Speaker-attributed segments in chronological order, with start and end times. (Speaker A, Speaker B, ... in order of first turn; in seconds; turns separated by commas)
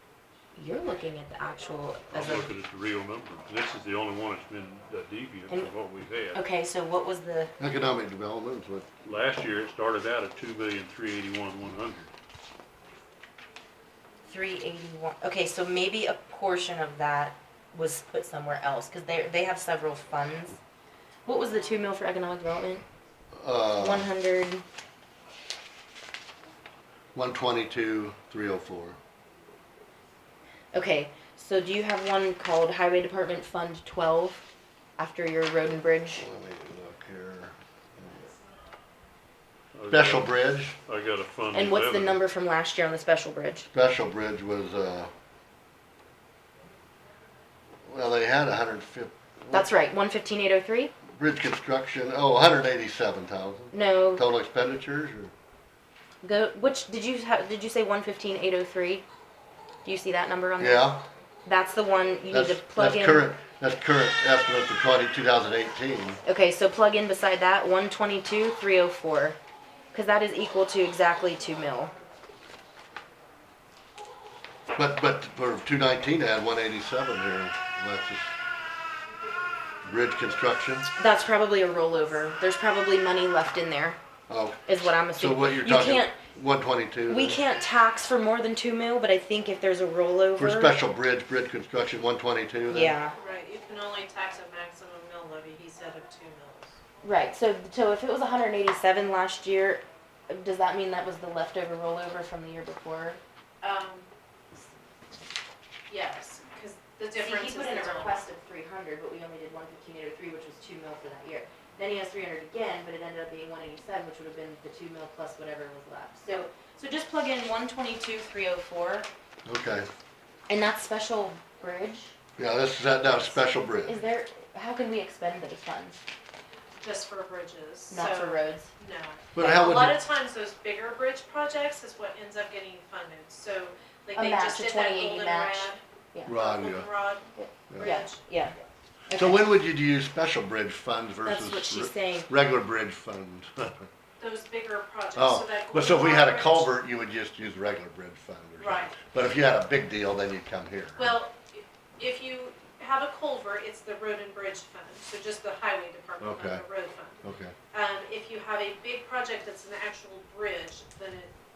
Speaker A: 0.6-2.5, Speaker B: 2.1-6.4, Speaker A: 6.3-7.5, Speaker C: 7.6-8.9, Speaker B: 9.0-12.1, Speaker A: 14.2-20.6, Speaker A: 21.2-22.8, Speaker C: 23.3-24.1, Speaker A: 23.8-24.6, Speaker C: 27.1-29.0, Speaker A: 30.7-34.5, Speaker A: 35.0-36.2, Speaker C: 36.2-38.3, Speaker B: 39.7-42.2, Speaker C: 39.9-40.7, Speaker A: 41.5-43.7, Speaker C: 43.7-45.1, Speaker C: 47.9-49.7, Speaker A: 49.5-50.9, Speaker C: 51.1-55.3, Speaker A: 53.7-54.2, Speaker A: 56.2-59.0, Speaker A: 59.8-60.9, Speaker C: 60.6-61.0, Speaker A: 61.4-63.3, Speaker C: 62.3-66.2, Speaker A: 66.2-69.4, Speaker A: 69.9-71.9, Speaker C: 74.7-78.4, Speaker C: 79.8-80.9, Speaker A: 81.0-84.0, Speaker C: 84.3-87.4, Speaker A: 84.7-86.1, Speaker A: 87.1-90.7, Speaker C: 90.4-93.0, Speaker A: 92.7-93.1, Speaker D: 93.2-96.8, Speaker A: 97.0-103.2, Speaker D: 103.6-104.1, Speaker D: 105.9-108.2, Speaker A: 107.2-119.1, Speaker C: 119.5-119.9, Speaker A: 120.5-122.1, Speaker C: 122.4-124.0, Speaker A: 123.8-126.0, Speaker D: 126.8-138.2, Speaker A: 127.9-128.7, Speaker C: 129.3-130.0, Speaker A: 134.1-136.3, Speaker C: 136.2-136.9, Speaker A: 137.3-138.6, Speaker A: 139.1-139.5, Speaker C: 139.1-143.9, Speaker A: 141.2-142.3, Speaker D: 144.2-146.7, Speaker C: 145.2-151.2, Speaker D: 148.6-148.9, Speaker D: 151.0-157.2, Speaker C: 156.2-156.6, Speaker C: 157.2-157.5, Speaker D: 157.7-161.3